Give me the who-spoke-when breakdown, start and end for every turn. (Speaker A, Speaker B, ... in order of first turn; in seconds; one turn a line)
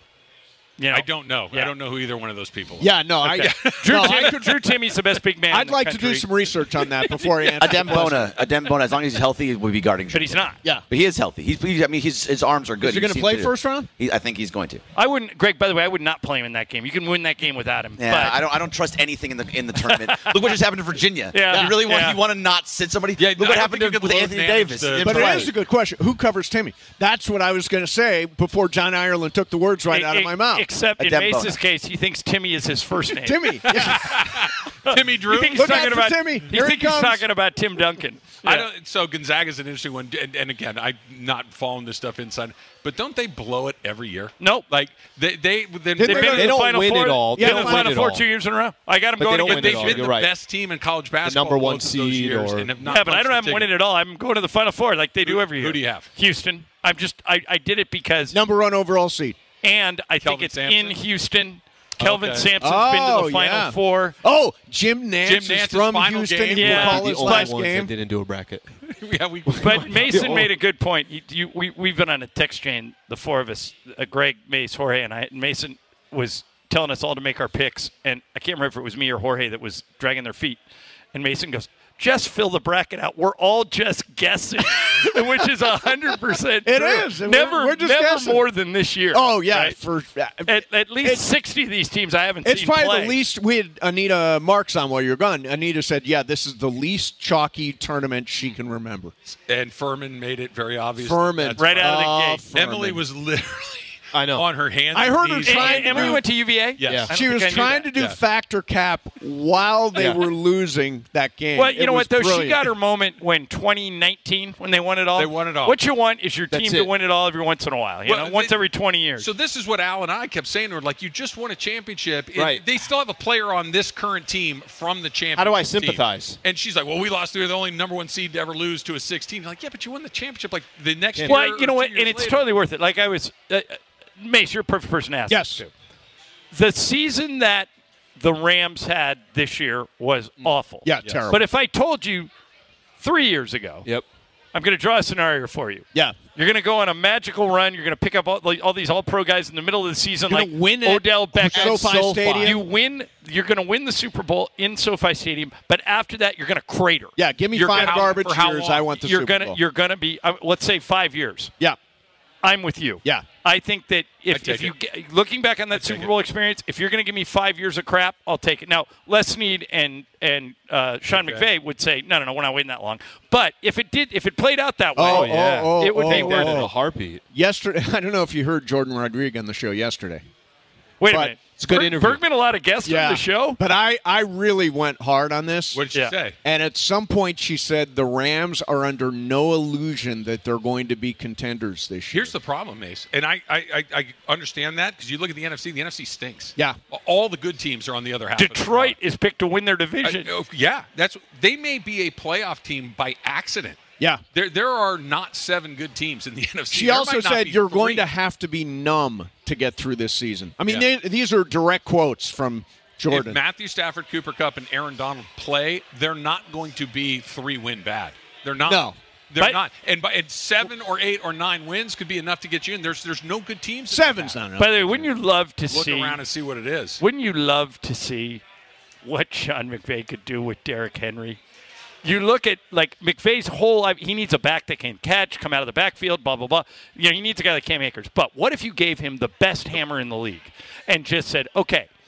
Speaker A: 0.8-1.7
Speaker B: 0.9-4.6
Speaker C: 2.8-4.7
Speaker A: 3.4-7.9
Speaker C: 5.5-8.3
Speaker D: 7.6-14.8
Speaker A: 10.1-10.6
Speaker C: 12.8-13.9
Speaker A: 14.9-18.4
Speaker D: 18.0-25.6
Speaker A: 19.8-20.6
Speaker A: 21.3-22.2
Speaker C: 21.4-22.0
Speaker B: 23.2-25.5
Speaker C: 25.0-30.7
Speaker A: 29.9-38.7
Speaker D: 31.0-31.6
Speaker C: 33.2-34.2
Speaker B: 33.7-35.9
Speaker C: 35.5-37.3
Speaker B: 38.4-46.6
Speaker A: 44.4-44.7
Speaker C: 46.0-46.6
Speaker A: 46.1-50.1
Speaker E: 46.1-48.3
Speaker C: 47.4-48.0
Speaker E: 49.2-50.3
Speaker B: 49.4-53.7
Speaker E: 51.2-52.8
Speaker A: 52.8-58.4
Speaker B: 55.2-56.1
Speaker C: 58.3-59.4
Speaker A: 59.6-64.2
Speaker B: 60.2-61.0
Speaker B: 62.0-62.5
Speaker C: 62.5-67.9
Speaker B: 65.2-66.9
Speaker A: 66.5-67.5
Speaker E: 66.5-68.7
Speaker B: 68.9-70.4
Speaker E: 69.5-70.5
Speaker A: 69.6-80.6
Speaker A: 81.1-89.8
Speaker C: 86.1-88.5
Speaker C: 89.1-91.2
Speaker A: 90.5-93.2
Speaker C: 92.4-99.2
Speaker B: 99.5-106.2
Speaker C: 101.0-103.0
Speaker A: 101.6-102.4
Speaker E: 104.1-104.5
Speaker C: 104.9-106.3
Speaker A: 105.4-107.9
Speaker B: 106.8-107.1
Speaker E: 106.8-107.1
Speaker C: 107.1-112.7
Speaker B: 107.9-108.2
Speaker E: 110.0-110.3
Speaker A: 111.5-119.3
Speaker B: 115.2-115.8
Speaker E: 116.5-116.9
Speaker B: 118.1-118.6
Speaker B: 119.2-132.5
Speaker E: 122.4-122.6
Speaker E: 125.4-126.4
Speaker E: 131.2-131.5
Speaker A: 131.3-135.7
Speaker C: 135.3-135.7
Speaker A: 136.5-142.3
Speaker E: 140.4-141.2
Speaker C: 140.8-141.4
Speaker A: 143.0-143.9
Speaker A: 144.5-157.1
Speaker C: 145.9-146.2
Speaker C: 150.3-152.6
Speaker E: 151.4-152.6
Speaker C: 157.2-159.6
Speaker B: 157.5-159.0
Speaker A: 157.8-158.1
Speaker A: 159.0-161.5
Speaker A: 162.4-176.7
Speaker C: 163.0-163.3
Speaker B: 164.3-164.8
Speaker B: 165.7-166.1
Speaker E: 171.1-171.5
Speaker C: 175.0-176.7
Speaker E: 175.0-177.2
Speaker C: 177.3-180.2
Speaker A: 181.0-183.6
Speaker C: 181.1-181.4
Speaker E: 181.4-182.2
Speaker C: 182.8-185.9
Speaker B: 185.7-186.4
Speaker C: 186.4-192.3
Speaker B: 192.1-199.0
Speaker A: 198.3-200.3
Speaker B: 200.0-203.8
Speaker B: 204.3-208.1
Speaker C: 206.7-213.4
Speaker B: 210.7-210.9
Speaker B: 213.1-224.4
Speaker C: 218.7-219.0
Speaker C: 223.9-225.1
Speaker A: 224.6-226.2
Speaker B: 225.7-227.0
Speaker A: 227.0-228.4
Speaker A: 229.0-231.4
Speaker A: 232.0-241.9